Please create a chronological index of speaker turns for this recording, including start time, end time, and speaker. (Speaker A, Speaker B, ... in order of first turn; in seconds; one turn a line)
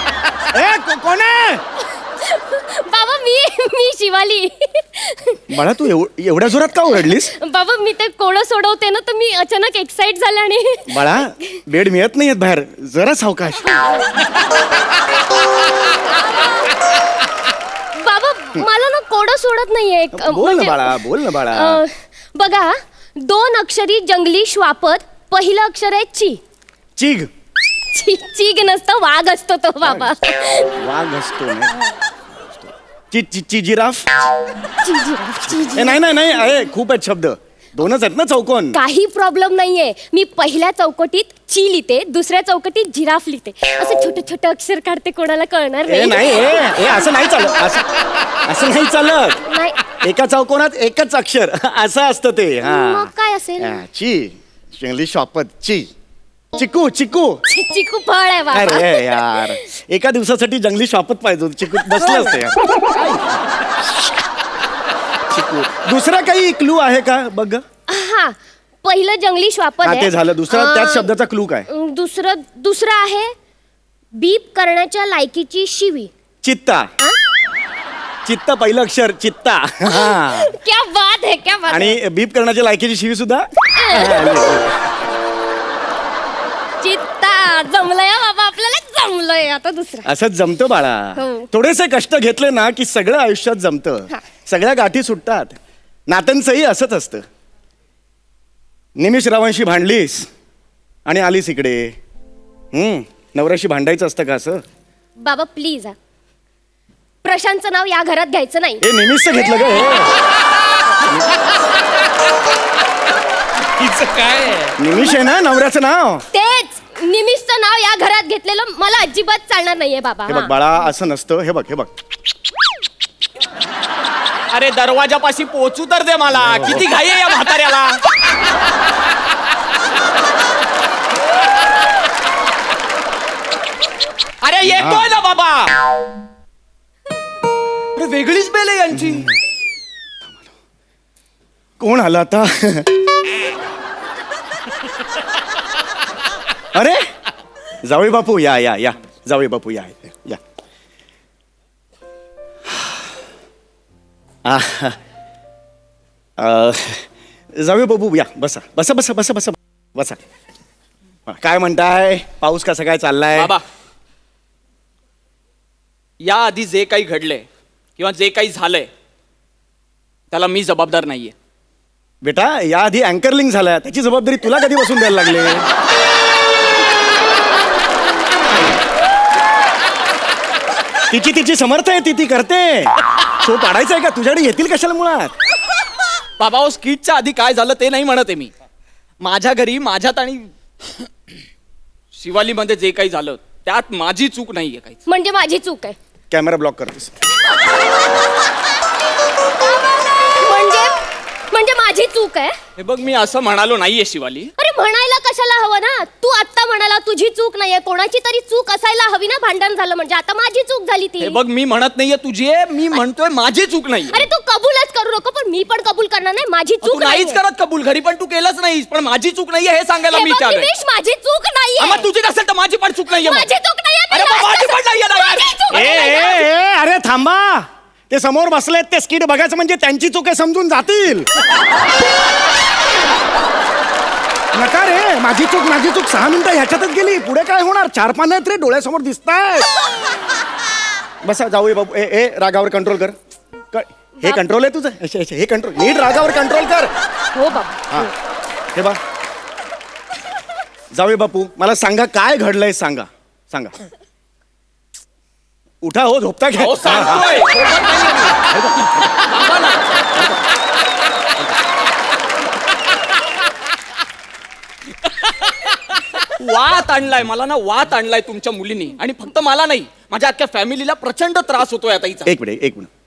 Speaker A: 0.4-1.6
Speaker B: 2.2-5.5
Speaker A: 5.5-7.3
Speaker B: 7.0-11.6
Speaker A: 10.9-13.7
Speaker B: 18.0-26.4
Speaker A: 20.1-21.8
Speaker A: 27.0-27.3
Speaker B: 27.9-30.8
Speaker A: 29.8-30.1
Speaker A: 30.8-31.7
Speaker A: 32.6-34.0
Speaker B: 34.8-36.0
Speaker A: 35.5-38.8
Speaker B: 38.7-47.0
Speaker A: 45.9-49.4
Speaker B: 49.5-49.8
Speaker A: 49.9-55.9
Speaker B: 52.6-53.8
Speaker A: 56.5-57.4
Speaker B: 57.5-59.7
Speaker A: 58.5-63.4
Speaker B: 62.0-63.0
Speaker A: 65.3-67.6
Speaker B: 67.9-71.1
Speaker A: 69.8-71.7
Speaker B: 71.7-73.3
Speaker B: 74.2-76.1
Speaker A: 76.4-76.9
Speaker A: 78.2-80.5
Speaker B: 79.8-82.0
Speaker A: 81.7-84.8
Speaker B: 83.7-84.5
Speaker B: 86.8-90.1
Speaker A: 90.0-95.6
Speaker B: 91.2-91.5
Speaker A: 96.1-97.2
Speaker A: 99.0-100.3
Speaker A: 101.1-102.0
Speaker A: 102.7-104.6
Speaker B: 105.2-106.0
Speaker B: 107.2-108.8
Speaker A: 108.8-110.2
Speaker A: 111.1-111.4
Speaker C: 113.8-114.7
Speaker A: 114.8-116.3
Speaker B: 116.3-120.5
Speaker A: 120.3-121.9
Speaker C: 124.5-128.0
Speaker A: 126.4-126.8
Speaker C: 134.4-135.8
Speaker A: 134.7-135.1
Speaker C: 138.0-139.3
Speaker A: 138.9-139.4
Speaker A: 141.8-142.9
Speaker A: 146.7-147.1
Speaker A: 147.8-150.4
Speaker A: 154.4-155.0
Speaker A: 156.4-160.2
Speaker A: 161.3-163.5
Speaker C: 163.3-163.6
Speaker C: 166.2-167.5
Speaker C: 168.0-168.9
Speaker C: 170.3-171.3
Speaker A: 172.2-175.7
Speaker A: 181.1-185.3
Speaker C: 186.4-188.5
Speaker C: 189.2-190.5
Speaker C: 192.1-195.0
Speaker B: 195.1-196.0
Speaker A: 196.3-197.1
Speaker B: 200.3-200.9
Speaker B: 201.5-202.6
Speaker C: 202.8-204.5
Speaker B: 204.6-211.4
Speaker C: 211.2-214.3
Speaker B: 214.1-217.4
Speaker C: 216.8-220.7
Speaker B: 220.1-222.1
Speaker C: 221.8-223.5
Speaker B: 223.1-226.5
Speaker C: 224.1-226.2
Speaker A: 225.7-231.3
Speaker A: 234.5-239.7
Speaker A: 241.2-243.2
Speaker A: 243.7-246.9
Speaker B: 247.3-248.1
Speaker A: 248.7-249.0
Speaker A: 250.9-253.7
Speaker A: 255.8-257.5
Speaker C: 256.6-260.4
Speaker A: 258.5-259.1
Speaker C: 265.3-272.3
Speaker A: 272.3-272.9